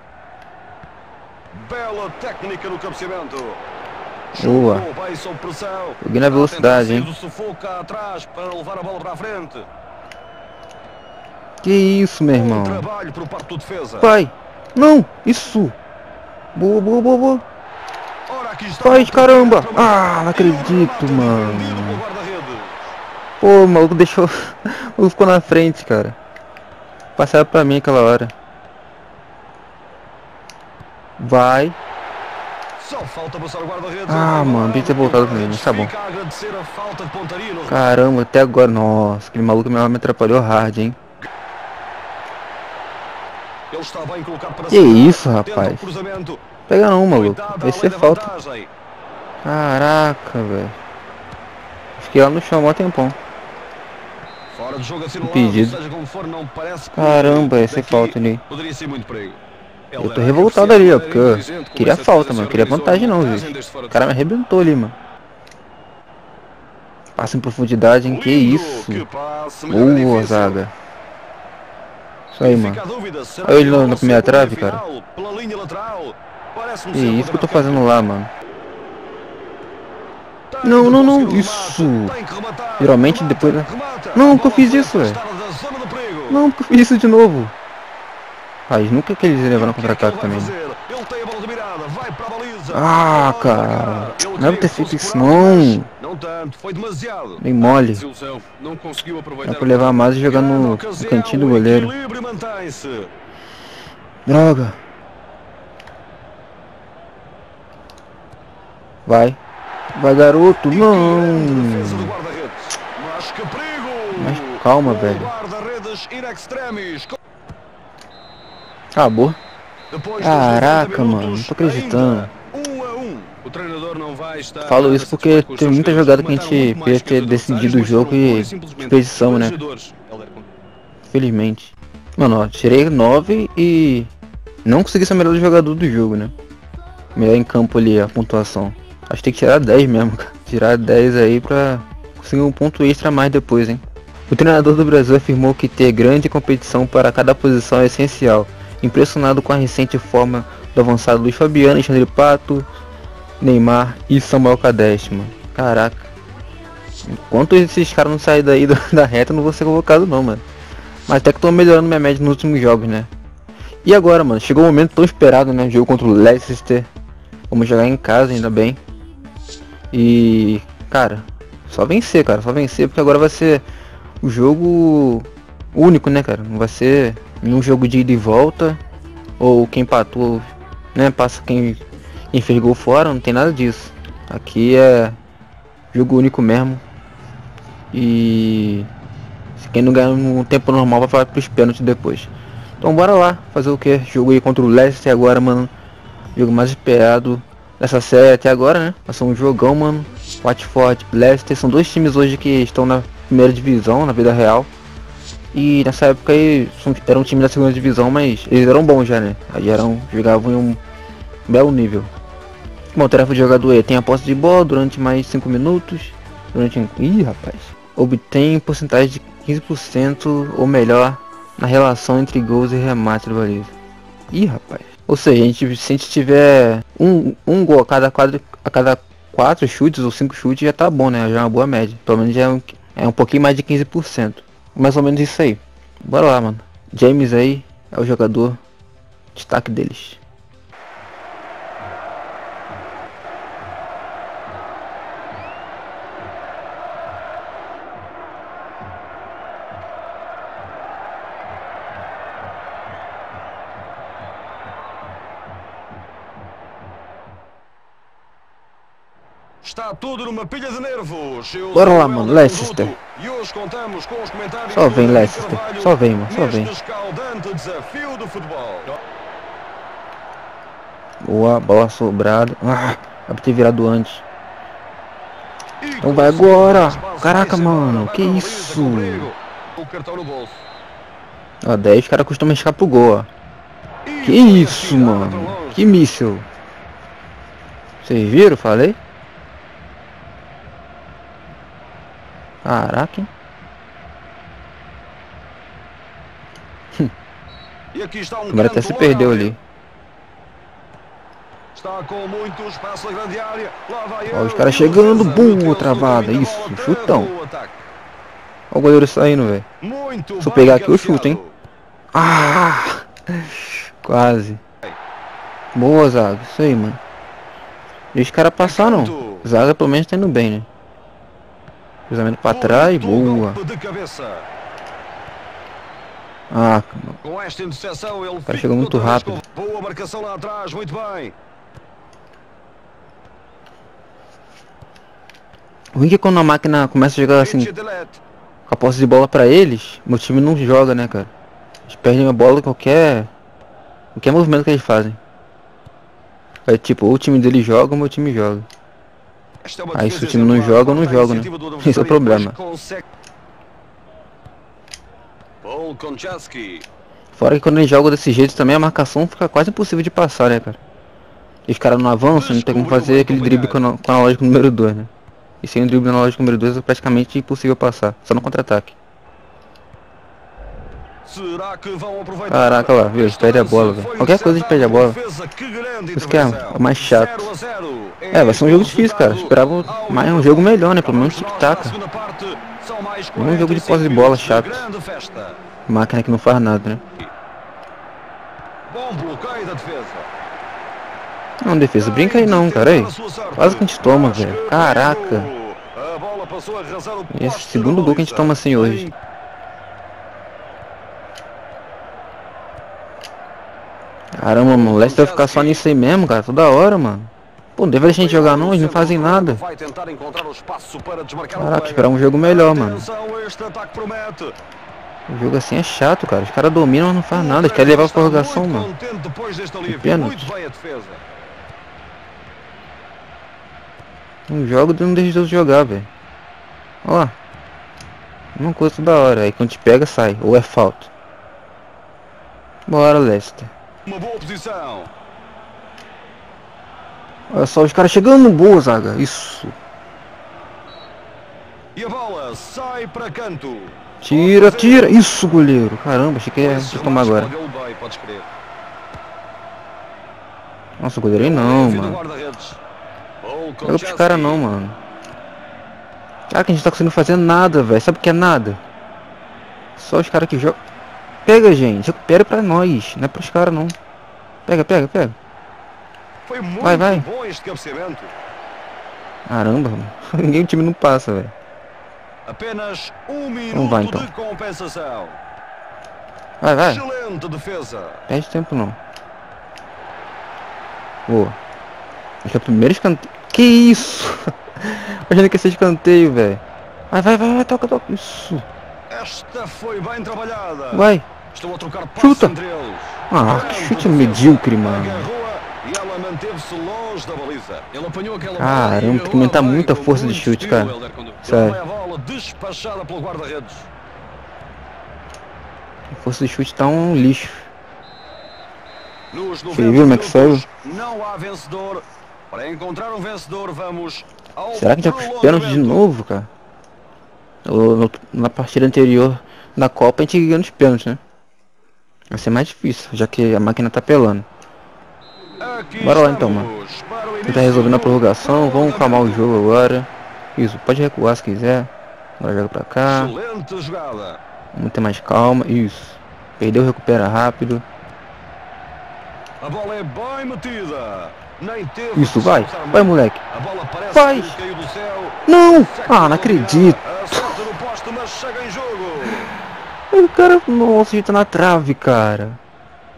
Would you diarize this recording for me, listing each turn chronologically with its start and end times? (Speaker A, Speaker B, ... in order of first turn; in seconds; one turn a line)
Speaker A: 1.5-3.6
Speaker A: 4.3-9.7
Speaker B: 4.4-4.9
Speaker B: 6.0-7.1
Speaker B: 11.6-12.9
Speaker A: 12.3-14.1
Speaker B: 14.0-15.8
Speaker B: 16.6-17.4
Speaker A: 18.3-22.9
Speaker B: 18.8-22.0
Speaker B: 23.4-26.2
Speaker B: 27.2-28.3
Speaker B: 31.2-31.8
Speaker A: 32.8-37.8
Speaker B: 34.1-35.9
Speaker B: 37.7-41.0
Speaker A: 43.7-46.5
Speaker B: 44.7-45.9
Speaker B: 46.7-48.3
Speaker A: 47.1-48.7
Speaker B: 49.4-50.8
Speaker B: 52.0-53.2
Speaker A: 54.5-59.4
Speaker B: 55.2-55.8
Speaker B: 57.0-58.4
Speaker C: 60.0-64.1
Speaker B: 60.0-65.0
Speaker B: 67.2-69.0
Speaker A: 68.0-70.6
Speaker B: 69.7-70.7
Speaker B: 72.3-72.8
Speaker A: 72.4-78.0
Speaker B: 73.4-74.8
Speaker B: 76.9-78.3
Speaker A: 80.5-86.5
Speaker B: 80.6-82.2
Speaker B: 82.8-85.2
Speaker B: 86.3-87.5
Speaker B: 88.7-90.5
Speaker A: 89.5-97.4
Speaker B: 92.7-95.9
Speaker B: 97.4-98.0
Speaker C: 97.6-100.0
Speaker B: 99.4-101.9
Speaker A: 100.3-103.1
Speaker B: 104.3-104.8
Speaker B: 109.1-109.4
Speaker B: 109.9-112.2
Speaker A: 110.7-117.2
Speaker B: 114.1-115.3
Speaker B: 118.9-119.4
Speaker A: 119.9-123.4
Speaker B: 120.2-122.3
Speaker C: 123.4-130.5
Speaker B: 124.6-129.6
Speaker B: 131.1-134.1
Speaker B: 134.7-136.3
Speaker B: 137.2-152.7
Speaker B: 153.4-156.1
Speaker B: 157.1-160.4
Speaker B: 161.1-163.1
Speaker B: 163.8-166.9
Speaker B: 167.5-168.8
Speaker B: 169.9-173.7
Speaker B: 174.2-178.8
Speaker B: 179.4-185.2
Speaker B: 185.9-186.8
Speaker B: 187.9-188.9
Speaker B: 189.6-195.7
Speaker B: 196.3-204.7
Speaker B: 205.5-210.8
Speaker B: 211.5-212.1
Speaker B: 212.9-223.7
Speaker B: 224.3-238.6
Speaker B: 239.3-240.2
Speaker A: 259.6-268.9
Speaker B: 261.7-262.9
Speaker B: 264.7-266.7
Speaker B: 271.2-274.2
Speaker A: 275.8-280.6
Speaker B: 276.0-279.3
Speaker B: 281.6-283.3
Speaker A: 284.1-285.9
Speaker B: 284.2-286.5
Speaker B: 288.0-289.0
Speaker B: 292.6-293.3
Speaker A: 297.9-299.6
Speaker B: 298.5-299.6
Speaker A: 301.8-307.8
Speaker B: 304.3-307.3
Speaker B: 308.7-309.7
Speaker A: 309.8-311.6
Speaker B: 310.4-311.4
Speaker B: 312.1-314.6
Speaker B: 315.7-317.0
Speaker B: 318.1-320.7
Speaker A: 318.6-319.5
Speaker B: 322.1-323.6
Speaker A: 322.4-324.5
Speaker B: 326.5-327.2
Speaker A: 327.2-331.4
Speaker B: 328.5-329.4
Speaker B: 335.9-337.7
Speaker A: 337.4-338.2
Speaker B: 338.7-341.3
Speaker B: 341.9-343.3
Speaker B: 344.1-345.2
Speaker B: 346.7-348.7
Speaker A: 349.6-353.1
Speaker B: 349.9-352.6
Speaker A: 355.6-356.9
Speaker B: 357.4-360.8
Speaker B: 361.7-365.1
Speaker A: 362.3-363.8
Speaker B: 365.6-368.9
Speaker A: 371.2-385.6
Speaker B: 372.5-375.2
Speaker B: 376.1-377.5
Speaker B: 378.3-382.0
Speaker B: 383.4-384.9
Speaker B: 385.9-387.0
Speaker A: 388.9-390.3
Speaker B: 391.6-395.5
Speaker A: 392.0-399.1
Speaker B: 397.3-399.1
Speaker B: 404.4-409.6
Speaker A: 404.7-405.8
Speaker A: 408.1-414.6
Speaker B: 411.6-413.1
Speaker B: 415.3-418.9
Speaker A: 417.3-421.3
Speaker B: 419.9-420.5
Speaker B: 424.5-426.1
Speaker B: 427.0-427.4
Speaker B: 428.6-431.1
Speaker B: 432.9-433.7
Speaker A: 434.1-435.1
Speaker B: 437.5-439.8
Speaker A: 442.0-445.2
Speaker B: 444.2-447.5
Speaker A: 446.6-448.5
Speaker B: 451.0-452.2
Speaker A: 451.4-452.8
Speaker A: 453.4-454.7
Speaker B: 453.9-455.0
Speaker B: 456.5-458.8
Speaker B: 460.0-460.8
Speaker B: 461.5-463.9
Speaker B: 464.7-465.4
Speaker A: 466.5-468.4
Speaker B: 466.8-467.3
Speaker B: 469.5-471.5
Speaker A: 472.5-475.4
Speaker B: 473.7-474.3
Speaker B: 476.6-477.0
Speaker A: 476.8-478.2
Speaker B: 478.3-479.0
Speaker B: 481.3-481.6
Speaker B: 482.4-488.7
Speaker A: 489.1-497.9
Speaker B: 490.9-491.3
Speaker B: 492.2-492.6
Speaker B: 493.3-495.3
Speaker C: 497.9-501.4
Speaker B: 498.6-501.8
Speaker A: 501.4-503.9
Speaker B: 506.1-507.7
Speaker A: 509.3-516.1
Speaker B: 509.7-510.6
Speaker B: 514.7-516.5
Speaker B: 517.6-521.2
Speaker B: 522.3-524.5
Speaker A: 525.6-529.5
Speaker B: 526.0-526.7
Speaker B: 527.5-533.3
Speaker A: 533.1-534.4
Speaker B: 534.7-537.8
Speaker A: 539.6-549.5
Speaker B: 542.2-543.4
Speaker B: 544.1-544.6
Speaker B: 545.5-547.6
Speaker B: 550.1-552.6